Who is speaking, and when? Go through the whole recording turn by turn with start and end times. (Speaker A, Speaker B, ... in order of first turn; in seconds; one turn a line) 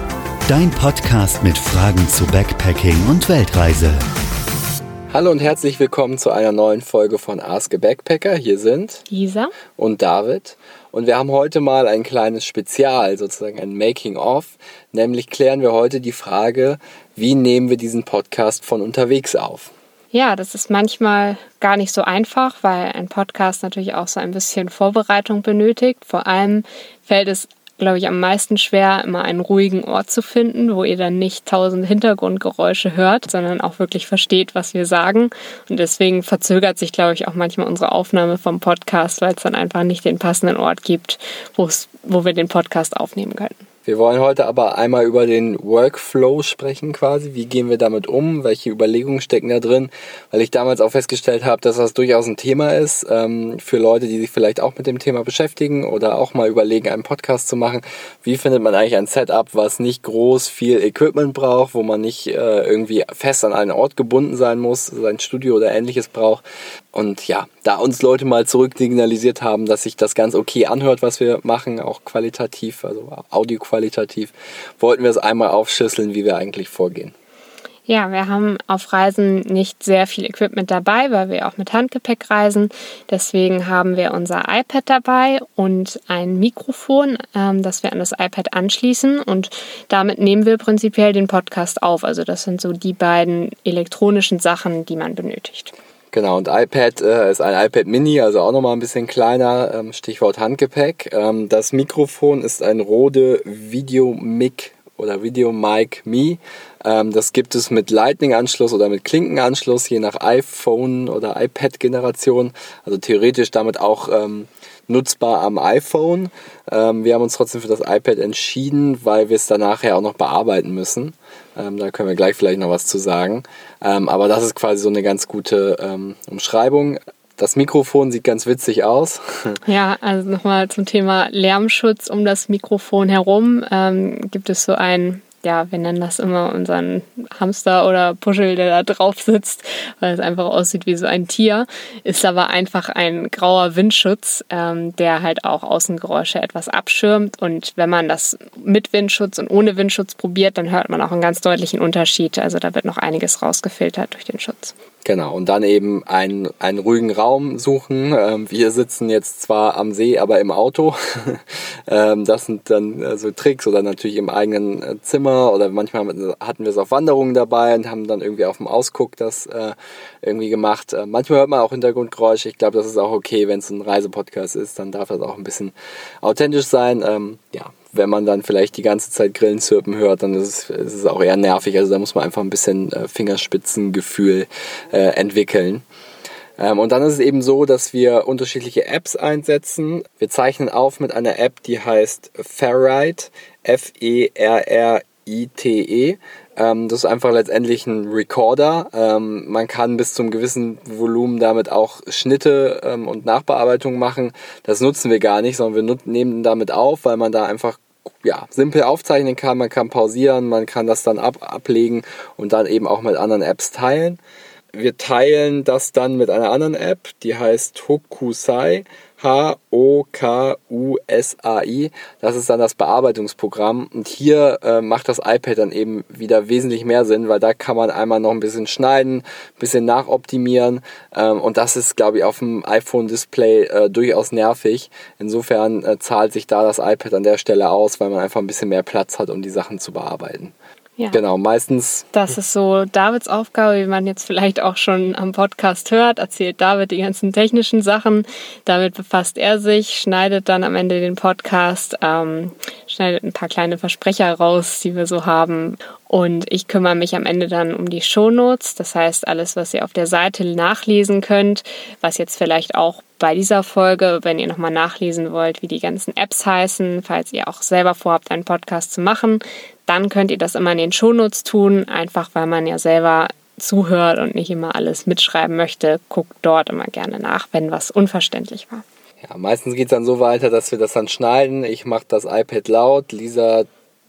Speaker A: 0.5-4.0
Speaker B: 5.1-9.0
Speaker C: 9.1-9.5
Speaker B: 9.8-19.7
Speaker C: 20.1-43.6
Speaker B: 43.9-77.1
Speaker C: 77.9-95.7
Speaker B: 96.1-129.6
Speaker C: 129.7-154.7
Speaker B: 155.0-185.8
Speaker B: 186.6-214.2
Speaker B: 214.7-240.5
Speaker B: 241.1-242.1
Speaker C: 242.1-278.8
Speaker B: 279.2-283.7